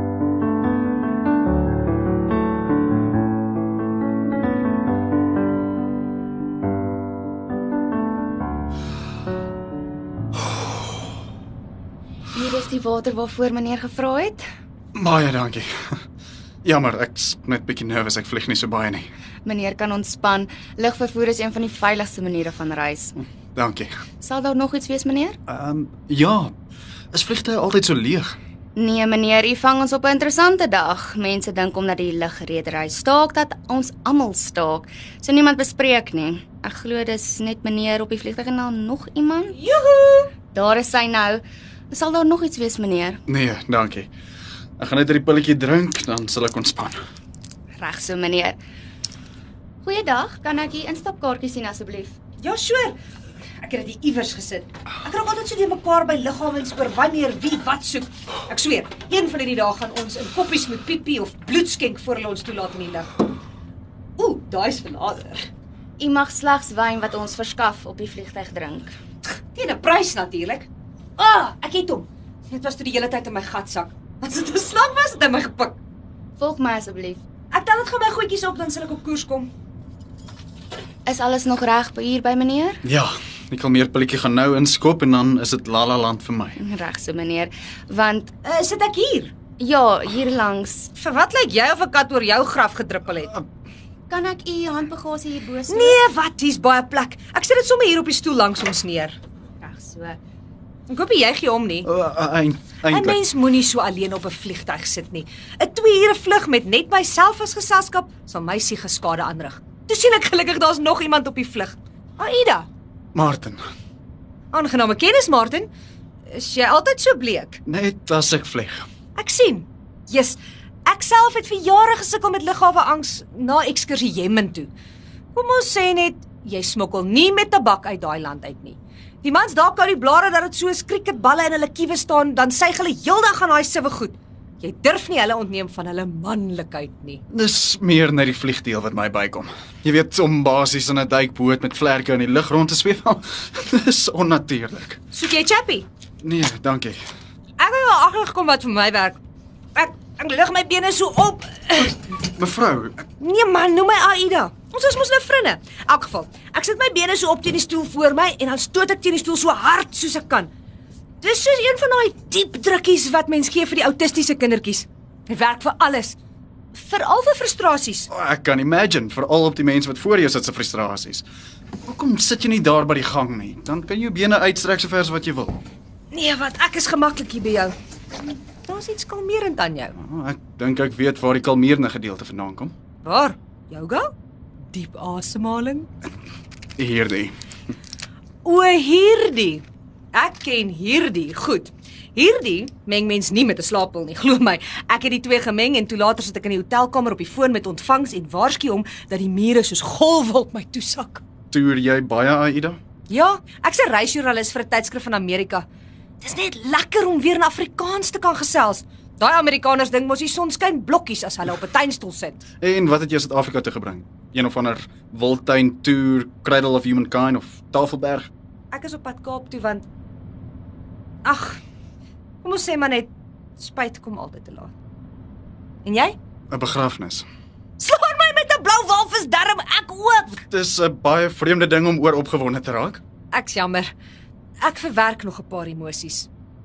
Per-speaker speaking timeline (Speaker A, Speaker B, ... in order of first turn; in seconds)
Speaker A: 12.3-14.4, 19.4-23.2, 24.2-25.4, 28.8-39.6, 40.5-43.2, 47.8-48.6, 49.8-52.2, 66.0-68.9, 76.4-77.2, 81.1-82.8, 86.6-88.3, 89.6-90.9, 94.1-96.0, 99.6-100.2
Speaker B: 14.9-16.0, 16.6-19.1, 23.2-23.9, 25.5-26.5, 27.1-28.4, 43.3-44.1, 44.8-47.0, 82.8-86.6, 101.8-103.2, 113.2-113.6, 117.7-118.8, 137.3-145.0, 146.2-147.0, 152.2-153.1, 168.1-171.2, 171.8-175.6, 180.0-182.7, 186.8-187.3, 201.5-202.8, 212.6-218.3, 226.5-227.3, 230.4-233.0
Speaker C: 39.5-40.3, 52.4-53.0, 53.6-63.1, 64.2-65.5, 69.5-75.8, 77.5-79.5, 88.4-89.3, 91.0-93.3, 95.7-99.2, 100.9-101.9, 102.9-112.7, 114.5-115.7, 116.3-117.6, 119.2-124.7, 125.3-137.2, 145.1-145.9, 147.6-149.2, 149.8-152.0, 153.2-160.5, 161.2-166.2, 166.7-168.1, 176.1-177.7, 178.7-180.0, 183.0-184.1, 184.7-185.9, 188.4-201.2, 203.1-205.7, 206.2-212.4, 218.7-219.9, 221.2-221.6, 222.4-224.7, 225.8-226.2, 227.8-230.4, 233.3-233.9, 234.6-236.3